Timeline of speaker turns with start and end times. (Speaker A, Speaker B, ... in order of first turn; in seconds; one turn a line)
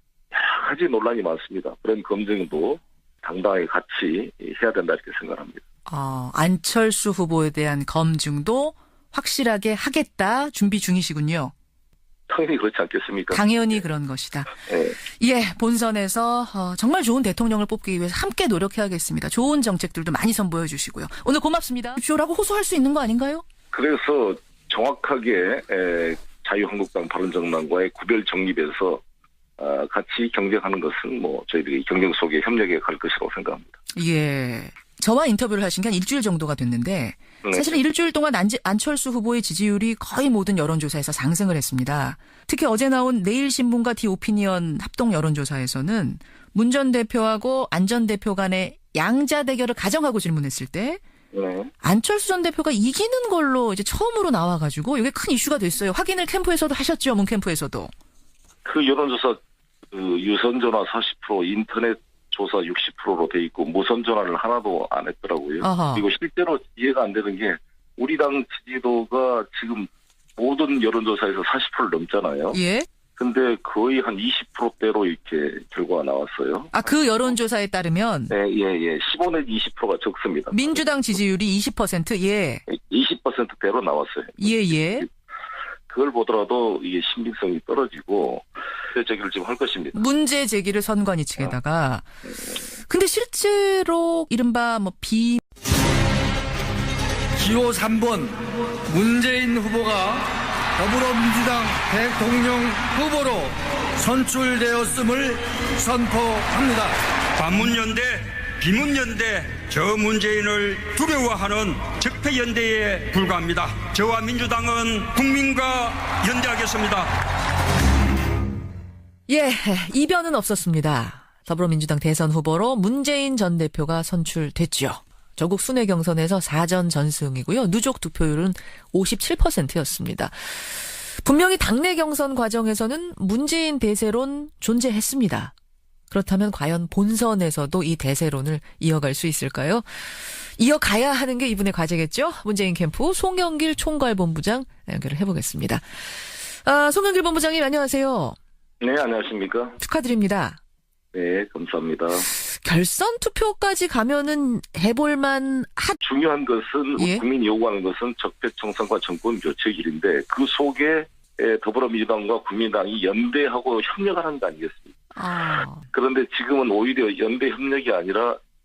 Speaker A: 0.3-5.6
Speaker B: 5.9-11.5
Speaker A: 12.3-13.8
Speaker B: 13.3-14.5
Speaker A: 14.6-15.0
Speaker B: 15.2-23.4
Speaker A: 23.7-29.0
Speaker A: 29.6-33.7
Speaker B: 34.0-51.0
Speaker A: 37.4-37.8
Speaker A: 51.3-51.7
Speaker B: 51.8-57.9
Speaker A: 58.6-59.4
Speaker A: 59.9-72.6
Speaker B: 65.6-66.1
Speaker B: 72.5-72.9
Speaker A: 73.2-76.8
Speaker B: 76.7-78.3
Speaker A: 78.3-80.8
Speaker B: 80.5-82.6
Speaker A: 82.7-85.1
Speaker B: 84.4-85.0
Speaker A: 85.9-90.0
Speaker B: 89.9-92.0
Speaker B: 92.9-95.4
Speaker C: 97.4-107.0
Speaker D: 107.4-117.1
Speaker B: 119.3-135.5
Speaker B: 136.1-145.9
Speaker B: 146.5-148.3
Speaker A: 148.8-149.8
Speaker B: 149.8-150.6
Speaker A: 151.1-152.3
Speaker B: 152.3-156.0
Speaker A: 156.0-165.0
Speaker B: 157.0-157.2
Speaker B: 165.2-165.8
Speaker A: 165.6-168.4